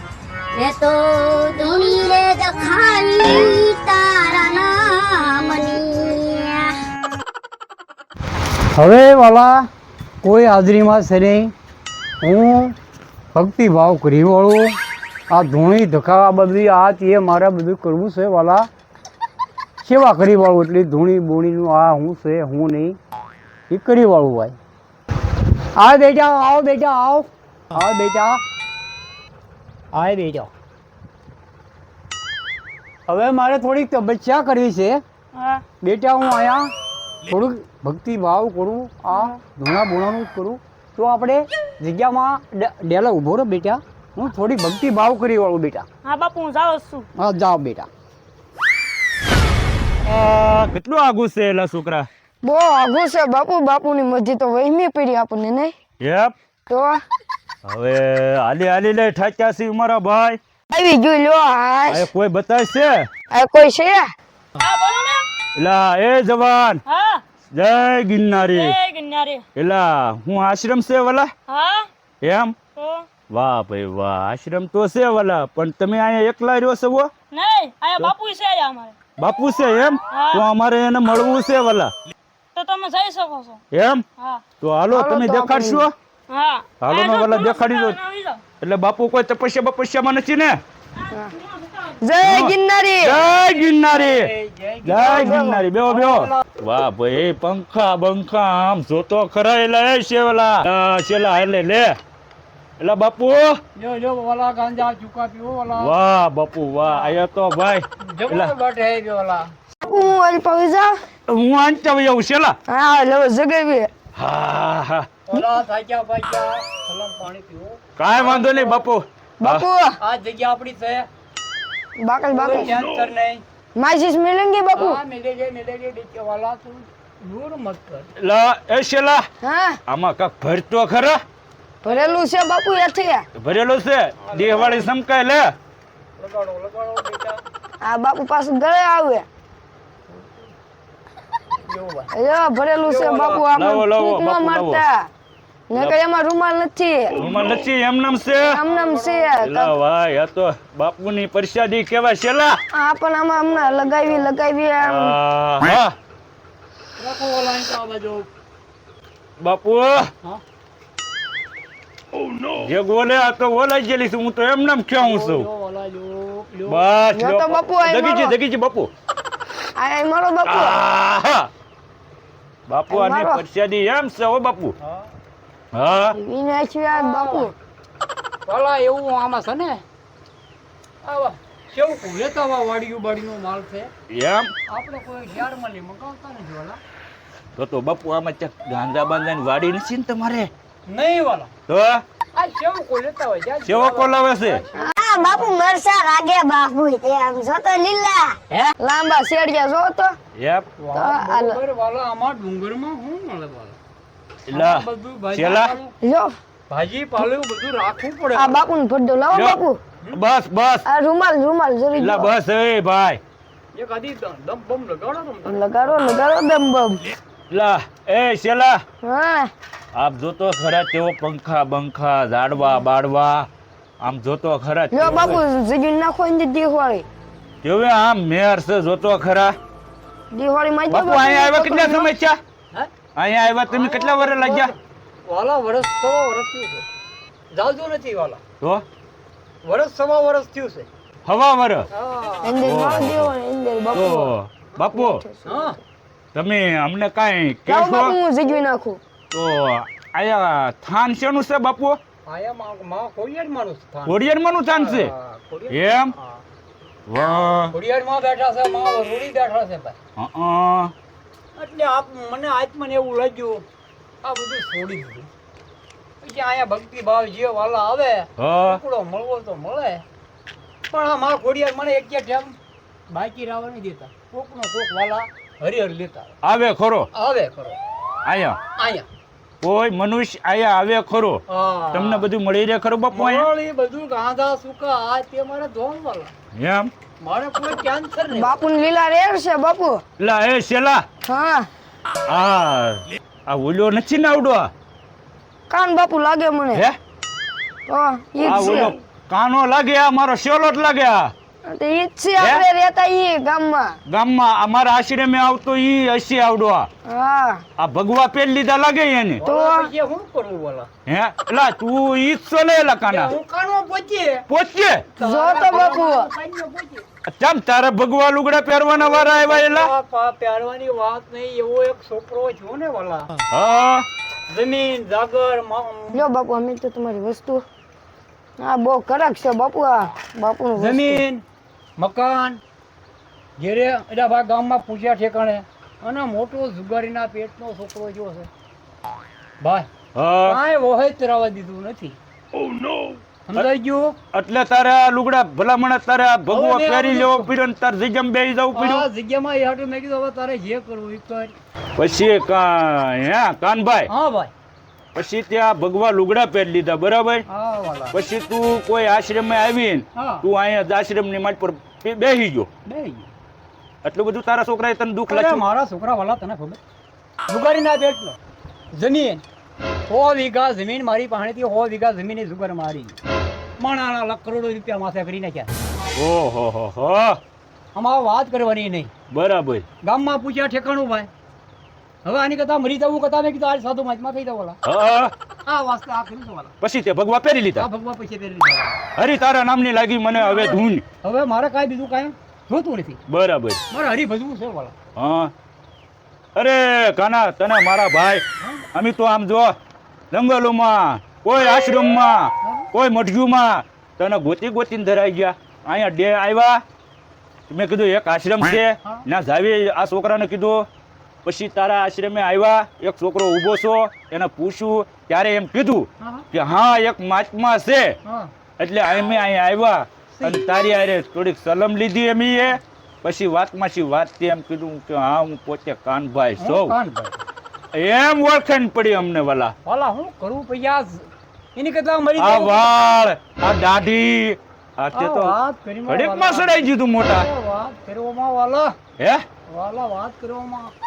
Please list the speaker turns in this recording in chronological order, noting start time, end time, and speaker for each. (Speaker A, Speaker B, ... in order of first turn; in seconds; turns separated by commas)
Speaker A: 0.6-6.7, Speaker B: 8.7-9.7, Speaker B: 10.2-11.5, Speaker B: 12.2-12.7, Speaker B: 13.3-14.8, Speaker B: 15.3-18.7, Speaker B: 19.8-22.9, Speaker B: 23.7-24.5, Speaker B: 25.8-28.4, Speaker B: 29.9-30.5, Speaker B: 33.1-35.0, Speaker B: 35.8-36.7, Speaker B: 37.3-45.9, Speaker C: 46.0-47.0, Speaker B: 47.2-47.9, Speaker D: 50.0-52.1, Speaker E: 52.4-55.7, Speaker D: 56.0-56.3, Speaker E: 56.7-57.0, Speaker D: 57.6-60.4, Speaker E: 60.7-62.1, Speaker D: 61.9-63.0, Speaker E: 63.3-64.1, Speaker C: 64.6-65.2, Speaker D: 65.5-66.8, Speaker C: 66.9-67.2, Speaker D: 67.5-68.8, Speaker C: 68.5-69.4, Speaker D: 69.5-71.3, Speaker C: 71.5-71.8, Speaker D: 72.2-72.6, Speaker C: 72.8-73.0, Speaker D: 73.3-77.1, Speaker C: 77.3-78.9, Speaker D: 79.2-81.9, Speaker C: 80.1-80.4, Speaker C: 82.5-83.5, Speaker D: 83.7-84.0, Speaker D: 84.6-85.9, Speaker E: 84.9-85.9, Speaker C: 86.3-88.4, Speaker D: 86.8-88.0, Speaker D: 88.6-90.6, Speaker E: 91.1-91.3, Speaker E: 92.0-93.2, Speaker D: 92.2-94.3, Speaker B: 93.8-96.4, Speaker D: 94.8-102.0, Speaker E: 95.0-95.6, Speaker D: 102.8-103.6, Speaker B: 103.8-105.9, Speaker D: 105.8-108.5, Speaker B: 108.0-109.5, Speaker E: 109.8-111.0, Speaker D: 111.3-112.6, Speaker E: 112.7-113.9, Speaker D: 114.1-115.1, Speaker B: 115.3-118.8, Speaker D: 118.0-119.7, Speaker E: 119.4-120.0, Speaker B: 120.0-121.1, Speaker E: 122.0-122.8, Speaker B: 122.3-123.4, Speaker E: 123.8-125.0, Speaker B: 124.7-128.1, Speaker D: 128.2-129.2, Speaker E: 129.4-129.8, Speaker D: 129.9-131.2, Speaker E: 131.8-133.2, Speaker B: 131.8-132.2, Speaker D: 133.4-135.5, Speaker B: 134.2-134.8, Speaker B: 136.2-137.4, Speaker E: 137.8-139.2, Speaker B: 141.6-142.1, Speaker E: 142.1-145.1, Speaker B: 142.8-143.4, Speaker D: 143.5-144.8, Speaker E: 145.7-147.2, Speaker D: 145.7-146.0, Speaker D: 147.1-148.6, Speaker E: 148.3-149.7, Speaker B: 148.6-149.3, Speaker D: 149.4-152.6, Speaker E: 152.7-155.2, Speaker B: 153.4-154.3, Speaker D: 154.8-155.9, Speaker B: 157.0-158.2, Speaker D: 159.4-160.1, Speaker D: 162.6-165.5, Speaker B: 165.0-166.9, Speaker D: 166.7-168.9, Speaker E: 167.1-168.3, Speaker E: 169.8-170.8, Speaker D: 170.4-171.5, Speaker D: 172.7-174.8, Speaker E: 172.9-173.4, Speaker D: 175.7-176.2, Speaker E: 176.1-177.5, Speaker B: 176.9-177.5, Speaker B: 178.4-179.8, Speaker B: 181.0-183.9, Speaker D: 184.1-184.5, Speaker B: 184.7-186.8, Speaker D: 187.6-190.5, Speaker B: 190.9-191.5, Speaker D: 191.7-192.0, Speaker B: 192.3-195.6, Speaker D: 193.6-194.6, Speaker E: 194.8-197.7, Speaker A: 195.2-198.3, Speaker E: 198.8-200.2, Speaker D: 200.3-200.7, Speaker B: 200.8-203.8, Speaker E: 200.9-201.6, Speaker D: 204.5-205.7, Speaker B: 204.5-205.9, Speaker E: 206.0-206.3, Speaker B: 206.7-208.6, Speaker E: 208.3-209.8, Speaker D: 209.3-210.8, Speaker E: 210.8-212.3, Speaker D: 211.9-213.2, Speaker B: 213.7-215.9, Speaker E: 215.4-217.1, Speaker D: 217.5-218.8, Speaker E: 219.0-219.5, Speaker D: 219.9-223.5, Speaker D: 224.0-225.4, Speaker E: 224.9-227.1, Speaker D: 227.6-229.6, Speaker E: 230.3-232.1, Speaker D: 230.9-232.4, Speaker D: 233.2-234.7, Speaker B: 233.7-236.8, Speaker B: 237.5-238.4, Speaker B: 239.6-240.9, Speaker D: 241.2-241.9, Speaker B: 241.9-242.5, Speaker E: 242.4-245.8, Speaker D: 242.6-243.3, Speaker D: 243.9-245.2, Speaker B: 245.4-245.8, Speaker D: 246.3-248.2, Speaker E: 247.7-249.0, Speaker D: 249.3-252.0, Speaker B: 252.2-256.4, Speaker D: 254.1-255.1, Speaker D: 255.7-256.1, Speaker D: 257.1-257.7, Speaker B: 257.7-259.9, Speaker D: 260.2-260.9, Speaker B: 261.6-263.6, Speaker B: 264.2-265.3, Speaker B: 266.2-270.0, Speaker D: 268.4-268.8, Speaker B: 270.9-272.5, Speaker B: 273.1-276.3, Speaker D: 276.4-277.1, Speaker B: 277.1-277.8, Speaker D: 278.2-278.6, Speaker B: 278.8-279.1, Speaker D: 279.6-283.5, Speaker B: 281.5-282.3, Speaker B: 283.1-286.3, Speaker D: 286.6-286.9, Speaker B: 287.2-288.6, Speaker E: 288.3-290.0, Speaker D: 290.2-291.0, Speaker E: 291.3-291.7, Speaker D: 292.3-294.7, Speaker E: 295.7-296.9, Speaker E: 297.9-298.9, Speaker D: 298.4-301.3, Speaker E: 301.7-304.0, Speaker D: 302.4-302.6, Speaker D: 304.1-306.9, Speaker E: 307.1-307.6, Speaker D: 307.8-309.4, Speaker B: 309.4-310.9, Speaker E: 309.4-309.9, Speaker D: 311.1-313.3, Speaker B: 313.1-314.4, Speaker D: 314.5-315.0, Speaker B: 315.2-317.0, Speaker E: 315.2-316.3, Speaker D: 317.2-319.9, Speaker B: 318.9-323.3, Speaker D: 323.5-324.1, Speaker B: 324.5-326.2, Speaker E: 326.1-327.6, Speaker E: 328.6-331.2, Speaker B: 330.8-331.4, Speaker B: 332.0-332.6, Speaker B: 333.6-338.5, Speaker B: 339.6-339.9, Speaker D: 340.1-340.6, Speaker B: 340.4-342.2, Speaker D: 342.6-343.7, Speaker B: 343.5-344.1, Speaker D: 344.3-349.1, Speaker B: 346.5-347.5, Speaker B: 348.7-351.5, Speaker D: 351.9-354.1, Speaker B: 354.1-354.5, Speaker D: 355.1-357.4, Speaker B: 357.5-358.2, Speaker D: 358.1-362.7, Speaker B: 360.1-360.4, Speaker B: 362.8-363.3, Speaker D: 364.0-365.6, Speaker B: 365.3-366.8, Speaker B: 367.5-368.4, Speaker B: 368.9-369.4, Speaker B: 370.1-373.2, Speaker B: 373.8-375.7, Speaker D: 376.1-377.4, Speaker B: 377.9-379.1, Speaker D: 379.3-379.8, Speaker B: 380.0-381.3, Speaker B: 382.2-384.8, Speaker D: 384.8-385.3, Speaker B: 385.6-386.7, Speaker D: 386.8-387.9, Speaker B: 387.8-389.0, Speaker D: 389.1-391.0, Speaker B: 390.3-393.2, Speaker D: 393.3-393.8, Speaker B: 393.9-394.9, Speaker D: 395.1-395.5, Speaker D: 396.6-399.7, Speaker D: 400.3-406.8, Speaker B: 401.6-402.9, Speaker D: 407.7-410.9, Speaker D: 411.4-418.1, Speaker B: 416.2-416.4, Speaker B: 418.2-418.5, Speaker D: 418.8-426.9, Speaker B: 420.4-420.6, Speaker B: 426.6-427.4, Speaker D: 427.9-429.7, Speaker B: 429.9-432.9, Speaker D: 432.4-435.5, Speaker B: 435.1-438.9, Speaker D: 436.1-437.5, Speaker D: 439.2-439.4, Speaker B: 439.7-440.9